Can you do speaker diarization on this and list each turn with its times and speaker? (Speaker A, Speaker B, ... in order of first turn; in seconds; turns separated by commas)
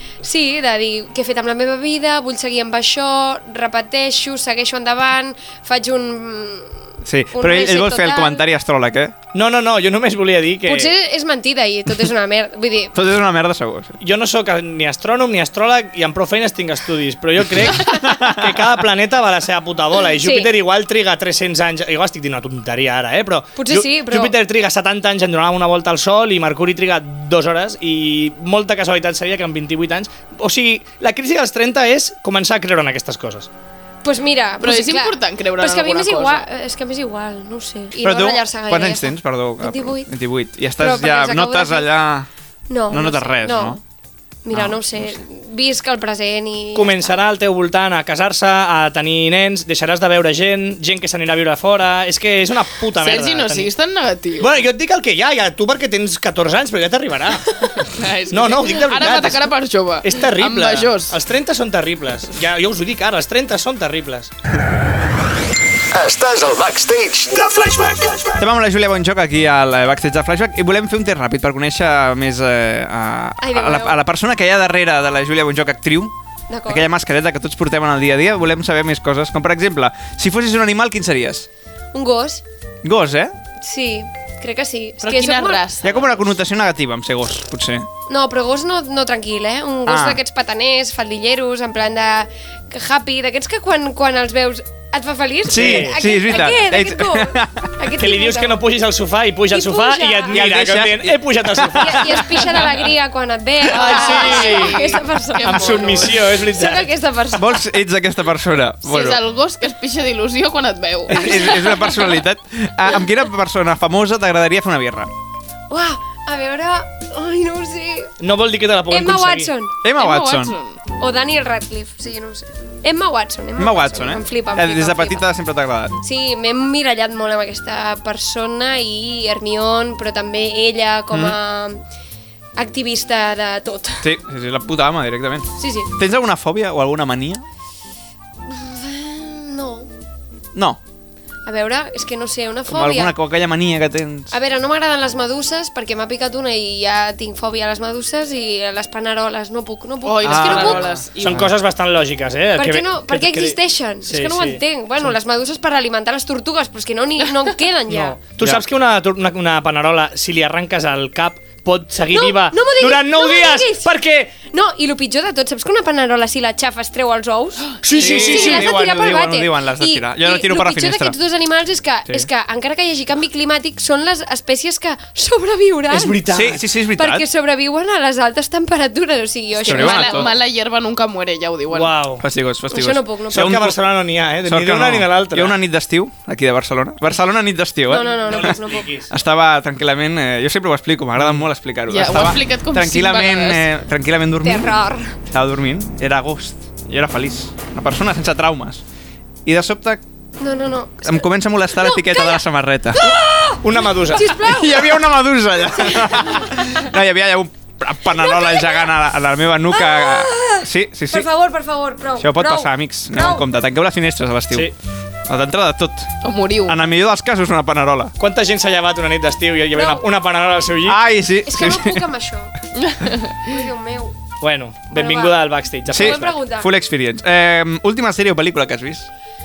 Speaker A: 0.2-6.8, Speaker B: 7.0-9.2, Speaker A: 7.3-8.4, Speaker C: 9.3-10.9, Speaker A: 10.7-12.9, Speaker B: 12.9-13.9, Speaker C: 14.0-33.5, Speaker B: 17.8-18.8, Speaker A: 20.2-20.5, Speaker A: 23.6-24.3, Speaker A: 34.0-40.1, Speaker D: 34.6-36.4, Speaker B: 38.0-42.3, Speaker A: 40.8-41.9, Speaker A: 42.7-43.8, Speaker B: 42.9-43.8, Speaker A: 44.5-47.2, Speaker B: 44.5-45.2, Speaker C: 46.8-53.7, Speaker D: 53.0-54.6, Speaker C: 54.4-57.8, Speaker D: 57.9-61.2, Speaker C: 58.3-64.3, Speaker E: 65.9-68.4, Speaker B: 68.4-76.1, Speaker A: 73.4-74.0, Speaker A: 76.5-76.9, Speaker B: 76.7-81.5, Speaker A: 81.9-82.4, Speaker B: 82.8-83.3, Speaker A: 83.6-85.6, Speaker D: 85.0-86.3, Speaker B: 85.8-87.9, Speaker A: 88.1-98.6, Speaker B: 89.9-90.2, Speaker B: 95.5-97.7, Speaker C: 95.5-96.0, Speaker C: 98.0-102.6, Speaker A: 99.5-100.4, Speaker B: 100.3-102.7, Speaker A: 101.7-107.6, Speaker C: 103.7-106.9, Speaker D: 103.7-106.2, Speaker B: 107.3-109.2, Speaker D: 108.8-112.0, Speaker B: 111.1-115.1, Speaker A: 115.7-118.1, Speaker C: 118.2-119.5, Speaker A: 118.9-119.8, Speaker B: 119.8-120.6, Speaker D: 120.0-120.8, Speaker A: 121.0-125.3, Speaker B: 123.6-126.0, Speaker A: 126.0-131.8, Speaker B: 131.1-131.4, Speaker A: 132.6-134.1, Speaker B: 134.0-137.4, Speaker A: 135.6-135.9, Speaker A: 138.5-139.9, Speaker B: 140.5-140.8, Speaker A: 141.4-143.1, Speaker B: 142.7-144.3, Speaker A: 144.3-150.9, Speaker D: 150.0-151.5, Speaker B: 150.2-151.5, Speaker C: 151.2-155.1, Speaker A: 152.6-158.2, Speaker C: 157.9-164.3, Speaker A: 162.1-176.2, Speaker C: 167.8-168.7, Speaker B: 167.9-171.2, Speaker C: 175.9-176.6, Speaker B: 176.3-177.2, Speaker A: 176.9-180.3, Speaker D: 179.6-182.0, Speaker B: 179.7-180.3, Speaker C: 181.7-182.2, Speaker B: 182.2-183.8, Speaker A: 182.7-183.6, Speaker C: 183.3-185.6, Speaker B: 184.4-188.6, Speaker A: 187.9-188.9, Speaker C: 188.0-189.1, Speaker B: 189.1-198.8, Speaker D: 191.9-193.6, Speaker A: 194.4-195.2, Speaker B: 199.4-200.0, Speaker A: 200.4-202.4, Speaker B: 201.1-203.1, Speaker A: 202.9-205.0, Speaker C: 203.1-204.3, Speaker B: 204.3-211.3, Speaker A: 205.8-206.6, Speaker A: 208.1-208.9, Speaker A: 209.7-213.4, Speaker B: 212.2-214.7, Speaker B: 215.3-216.1, Speaker D: 216.2-216.8, Speaker B: 216.7-218.1, Speaker C: 218.2-221.0, Speaker A: 219.7-220.1, Speaker B: 220.8-222.0, Speaker A: 221.5-222.5, Speaker D: 222.8-223.5, Speaker A: 223.4-224.2, Speaker C: 224.4-226.4, Speaker A: 224.9-226.7, Speaker B: 225.9-229.1